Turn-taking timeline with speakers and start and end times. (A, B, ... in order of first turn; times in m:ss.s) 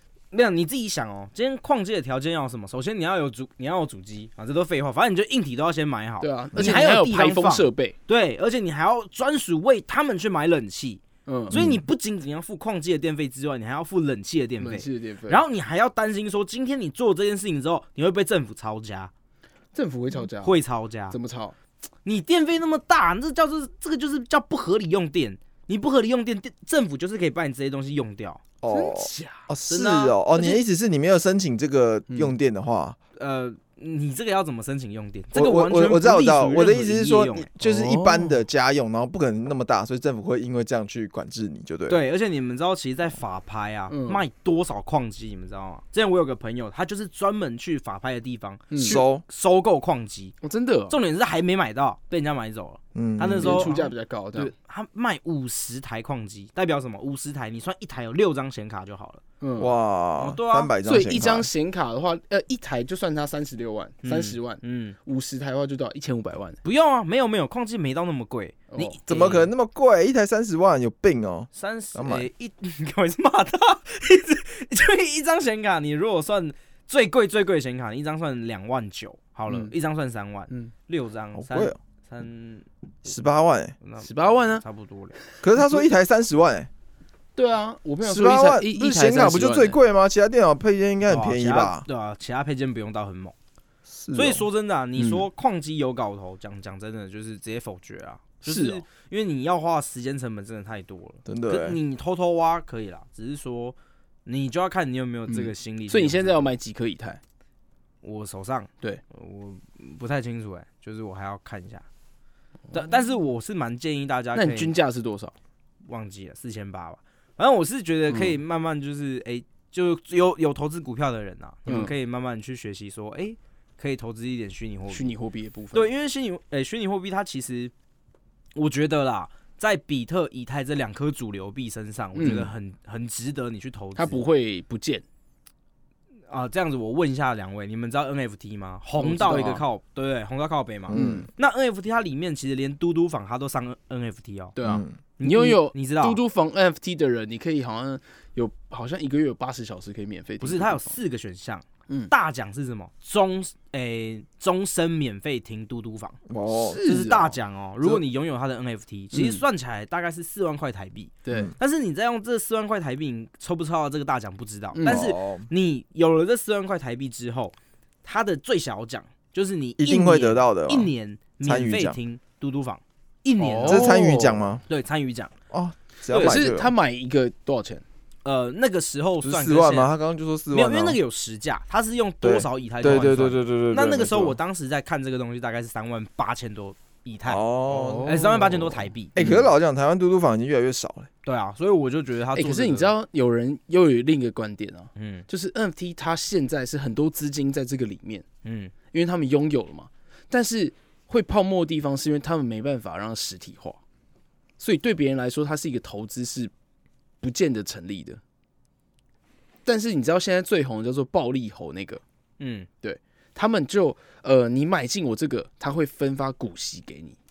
0:00.3-0:19.1 A
0:06.2-0:08.0 B
0:11.3-0:11.6 B
0:11.5-0:11.8 C
0:14.6-0:15.4 B
0:19.7-0:20.6 B
0:20.4-0:21.2 A
0:21.1-0:21.6 B
0:22.0-0:28.4 A
0:28.6-0:33.0 C
0:28.7-0:29.5 B
0:29.7-0:30.6 A
0:33.2-0:37.5 A
0:35.3-0:42.0 C
0:37.6-0:38.4 B
0:41.9-0:50.3 A
0:43.9-0:44.2 B
0:48.7-0:49.0 B
0:48.8-0:49.2 C
0:50.4-0:51.0 B
0:50.9-0:59.2 A
0:52.9-0:53.7 C
0:53.4-0:54.5 B
0:59.4-0:59.7 B
0:59.6-1:01.5 C
1:00.2-1:00.7 A
1:00.8-1:06.6 B
1:04.0-1:05.0 A
1:06.6-1:09.5 A
1:08.7-1:09.0 B
1:09.1-1:12.3 C
1:11.5-1:22.7 A
1:21.4-1:21.8 C
1:23.0-1:23.8 C
1:23.8-1:25.2 A
1:24.0-1:24.6 B
1:25.3-1:25.8 B
1:25.4-1:26.7 C
1:27.4-1:29.8 B
1:28.0-1:31.8 C
1:31.1-1:33.4 A
1:33.9-1:34.5 C
1:34.1-1:46.5 A
1:35.0-1:35.3 B
1:38.4-1:38.8 B
1:41.3-1:41.8 C
1:45.3-1:47.2 B
1:48.0-1:51.9 A
1:52.7-1:54.7 A
1:54.3-1:55.3 B
1:55.9-2:05.1 A
1:58.1-1:58.4 B
2:01.7-2:01.9 B
2:04.9-2:05.9 B
2:05.7-2:07.7 A
2:08.6-2:14.2 A
2:12.2-2:12.5 B
2:14.0-2:15.0 B
2:16.3-2:24.6 A
2:19.0-2:19.6 B
2:20.9-2:21.3 C
2:20.9-2:21.3 B
2:24.6-2:31.0 B
2:24.6-2:24.9 C
2:25.2-2:26.2 A
2:30.4-2:36.2 A
2:36.3-2:36.8 C
2:36.5-2:38.0 B
2:36.8-2:53.9 A
2:39.1-2:39.4 B
2:41.2-2:41.5 B
2:44.7-2:45.1 B
2:44.9-2:45.5 C
2:49.8-2:50.9 C
2:51.4-2:52.0 C
2:53.4-2:54.5 B
2:53.6-2:54.6 C
2:54.7-2:55.3 A
2:55.5-2:56.7 C
2:56.1-2:57.8 B
2:56.1-2:56.4 A
2:58.2-2:59.9 A
2:59.2-3:01.0 C
3:00.5-3:09.2 A
3:02.2-3:04.4 C
3:07.3-3:08.6 C
3:07.7-3:08.6 B
3:09.2-3:09.5 B
3:09.2-3:11.1 C
3:11.2-3:12.9 A
3:12.4-3:18.3 B
3:15.0-3:15.3 A
3:18.4-3:18.7 A
3:18.9-3:23.8 B
3:24.6-3:26.5 B
3:27.2-3:28.2 B
3:29.7-3:32.0 B
3:32.4-3:32.7 A
3:32.8-3:37.2 B